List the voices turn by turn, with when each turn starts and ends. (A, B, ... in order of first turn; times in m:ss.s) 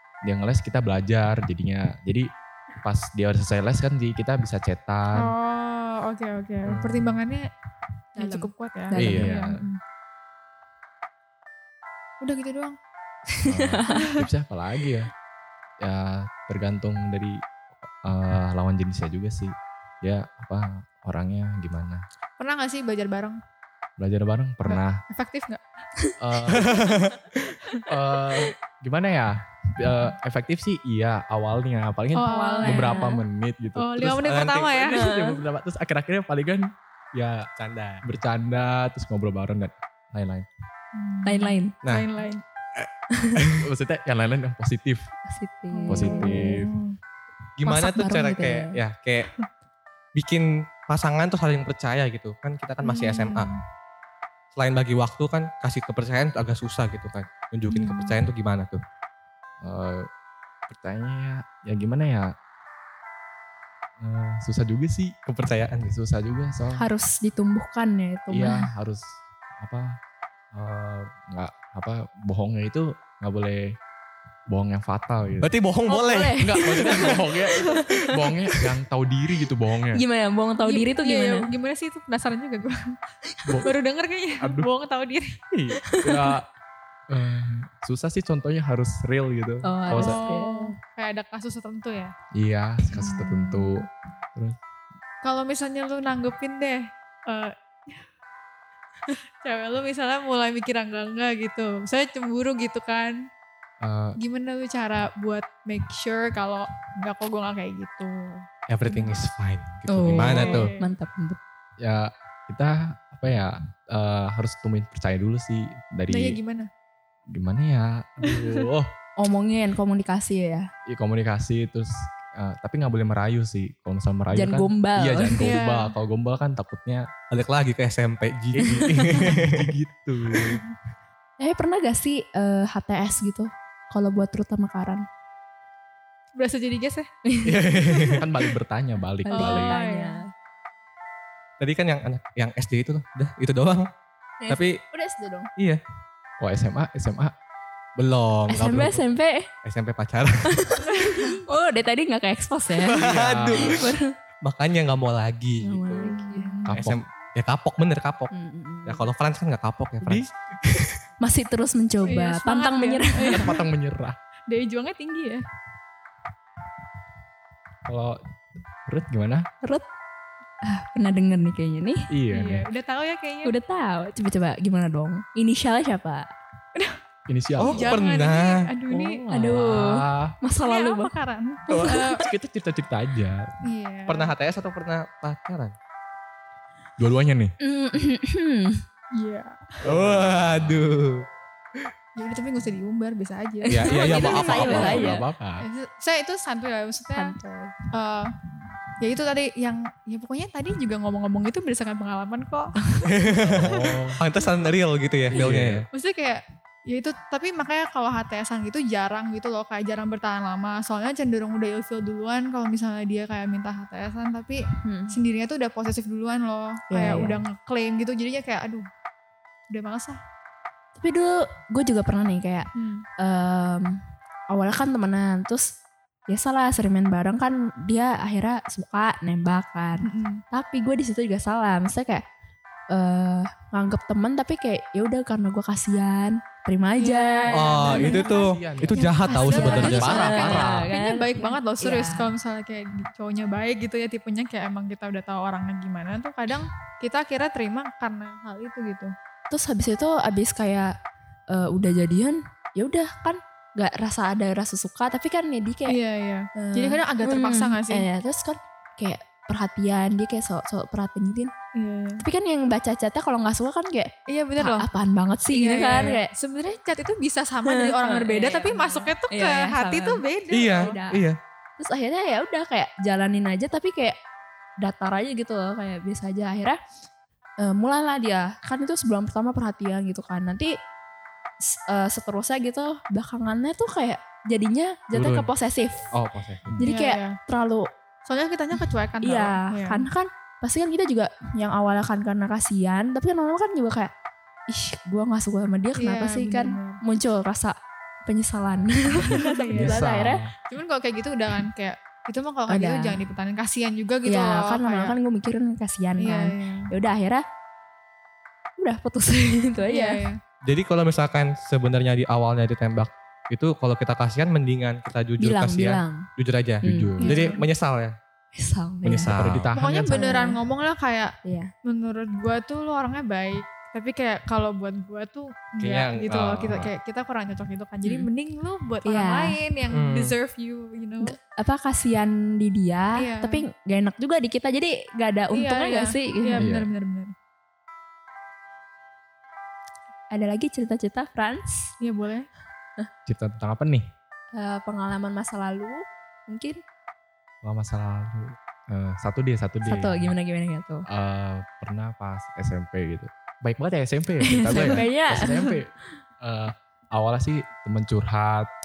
0:00.2-0:02.3 A
0:02.8-0:05.3 A
0:05.1-0:07.5 B
0:06.7-0:07.1 C
0:08.2-0:09.8 B
0:08.2-0:09.4 D
0:09.0-0:09.6 A
0:09.0-0:09.3 C
0:12.2-0:12.8 B
0:13.3-0:14.0 D
0:13.4-0:15.1 A
0:13.9-0:14.2 B
0:15.8-0:22.0 A
0:22.4-0:23.4 B
0:24.0-0:25.0 A
0:24.7-0:25.6 B
0:26.2-0:26.9 A
0:26.5-0:27.3 C
0:27.9-0:37.5 A
0:32.2-0:33.1 B
0:32.2-0:33.2 D
0:33.8-0:35.1 B
0:34.2-0:34.8 C
0:34.9-0:35.4 D
0:37.6-0:38.0 C
0:38.0-0:40.5 A
0:41.0-0:42.4 B
0:41.2-0:41.7 D
0:42.8-0:43.7 C
0:43.6-0:45.1 A
0:45.3-0:46.6 D
0:45.7-0:47.0 B
0:45.9-0:46.7 A
0:47.6-0:49.3 C
0:47.6-0:48.8 D
0:50.2-0:53.5 C
0:52.8-0:53.6 B
0:54.5-0:58.8 C
0:57.7-0:58.2 B
0:59.6-1:00.1 A
1:00.7-1:02.3 A
1:04.0-1:05.2 A
1:05.3-1:05.9 C
1:05.8-1:06.9 A
1:06.8-1:08.7 D
1:08.3-1:10.0 A
1:10.5-1:13.8 A
1:14.5-1:15.5 A
1:15.4-1:17.0 C
1:15.9-1:18.4 D
1:16.4-1:20.0 A
1:19.9-1:21.5 D
1:20.6-1:23.0 B
1:23.6-1:25.4 B
1:24.4-1:24.7 A
1:25.9-1:26.4 D
1:25.9-1:26.5 A
1:27.1-1:30.2 A
1:29.6-1:30.7 D
1:29.9-1:32.1 B
1:32.3-1:34.6 A
1:32.9-1:33.8 B
1:35.2-1:38.1 B
1:39.1-1:43.3 B
1:43.8-1:44.2 A
1:44.2-1:49.2 B
1:48.7-1:50.7 C
1:49.9-1:51.4 D
1:50.1-1:50.9 B
1:51.8-1:56.4 A
1:56.1-1:56.7 B
1:57.3-1:58.9 A
1:58.3-1:58.5 B
1:59.2-2:00.7 D
2:00.9-2:07.1 A
2:04.3-2:05.6 D
2:05.4-2:05.9 B
2:07.3-2:09.7 C
2:08.5-2:10.6 A
2:11.4-2:15.0 D
2:16.4-2:17.1 B
2:17.2-2:18.2 D
2:17.4-2:18.3 C
2:18.1-2:19.8 A
2:19.3-2:20.3 D
2:19.3-2:20.2 B
2:21.6-2:23.9 C
2:24.4-2:25.5 D
2:24.5-2:24.8 C
2:26.4-2:27.3 A
2:28.0-2:29.0 C
2:28.5-2:29.5 D
2:29.6-2:30.6 C
2:30.5-2:33.0 D
2:30.9-2:31.4 B
2:32.8-2:33.9 C
2:33.0-2:33.9 A
2:33.6-2:34.1 D
2:34.4-2:36.1 C
2:35.6-2:36.6 D
2:36.0-2:36.8 B
2:36.7-2:37.0 A
2:36.7-2:38.3 C
2:38.3-2:39.1 D
2:38.9-2:40.3 C
2:41.2-2:43.6 D
2:42.0-2:43.6 B
2:43.3-2:44.2 A
2:44.5-2:45.4 B
2:47.9-2:48.2 A
2:48.9-2:49.5 A
2:50.6-2:52.1 D
2:52.1-2:52.6 A
2:52.3-2:53.6 B
2:53.4-2:56.3 D
2:57.3-2:58.0 A
2:57.6-2:58.7 C
2:57.8-2:59.2 B
2:58.9-3:00.4 A
2:59.3-3:01.1 D
3:00.6-3:02.2 B
3:01.7-3:03.6 A
3:03.6-3:04.3 B
3:04.1-3:05.7 C
3:07.0-3:07.6 A
3:07.6-3:08.8 D
3:09.2-3:09.7 B
3:09.8-3:10.8 A
3:09.8-3:11.3 C
3:12.2-3:14.8 B
3:13.7-3:15.2 D
3:13.7-3:15.7 A
3:13.8-3:15.1 C
3:15.6-3:17.3 B
3:17.2-3:17.8 D
3:17.9-3:18.3 B
3:19.0-3:23.1 B
3:23.1-3:25.9 C
3:23.4-3:24.2 A
3:23.6-3:24.0 B
3:25.3-3:25.9 A
3:25.9-3:38.9 B
3:34.8-3:35.1 D
3:36.9-3:37.4 D
3:39.7-3:40.2 B
3:41.0-3:45.7 D
3:42.8-3:43.1 B
3:46.3-3:52.2 D
3:50.0-3:50.4 B
3:52.9-3:58.4 D
3:57.0-3:58.4 B
3:57.5-4:00.6 C
3:58.0-4:00.9 A
3:59.0-4:02.3 D
3:59.0-4:09.1 B
4:09.5-4:11.0 D
4:11.5-4:16.0 D
4:15.9-4:18.0 B
4:16.6-4:21.5 D
4:21.8-4:22.2 B
4:22.2-4:26.3 D
4:24.3-4:24.9 B
4:25.5-4:31.0 B
4:27.6-4:31.2 D
4:30.5-4:31.4 C
4:31.8-4:34.2 D
4:34.8-4:36.8 D
4:37.6-4:40.7 D
4:41.7-4:46.1 D
4:46.1-4:46.7 C
4:46.8-4:47.9 D
4:46.8-4:47.4 B
4:48.2-4:50.0 B
4:49.2-4:54.1 D
4:54.7-5:00.5 D
4:56.0-4:57.0 B
4:59.2-5:00.0 B
4:59.7-5:00.5 A
5:00.7-5:05.2 B
5:02.7-5:03.2 D
5:04.2-5:07.4 D
5:06.2-5:06.9 B
5:08.8-5:10.2 D
5:09.9-5:10.4 B
5:10.6-5:18.2 C
5:15.4-5:16.2 D
5:16.8-5:17.2 D
5:16.8-5:17.4 A
5:17.2-5:17.6 B
5:18.6-5:19.4 D
5:19.0-5:19.7 C
5:19.3-5:20.4 A
5:19.8-5:21.4 B
5:20.1-5:20.6 D
5:21.4-5:21.7 D
5:21.9-5:31.4 B
5:25.8-5:26.9 C
5:29.0-5:29.6 D
5:29.9-5:30.3 C
5:31.2-5:36.7 D
5:33.2-5:33.6 B
5:35.5-5:37.4 B
5:36.6-5:36.9 A
5:40.3-5:41.9 D
5:42.0-5:42.5 B
5:43.3-5:44.1 A
5:44.6-5:46.8 D
5:47.6-5:50.3 A
5:49.9-5:51.0 D
5:51.1-5:58.7 A
5:54.4-5:55.7 D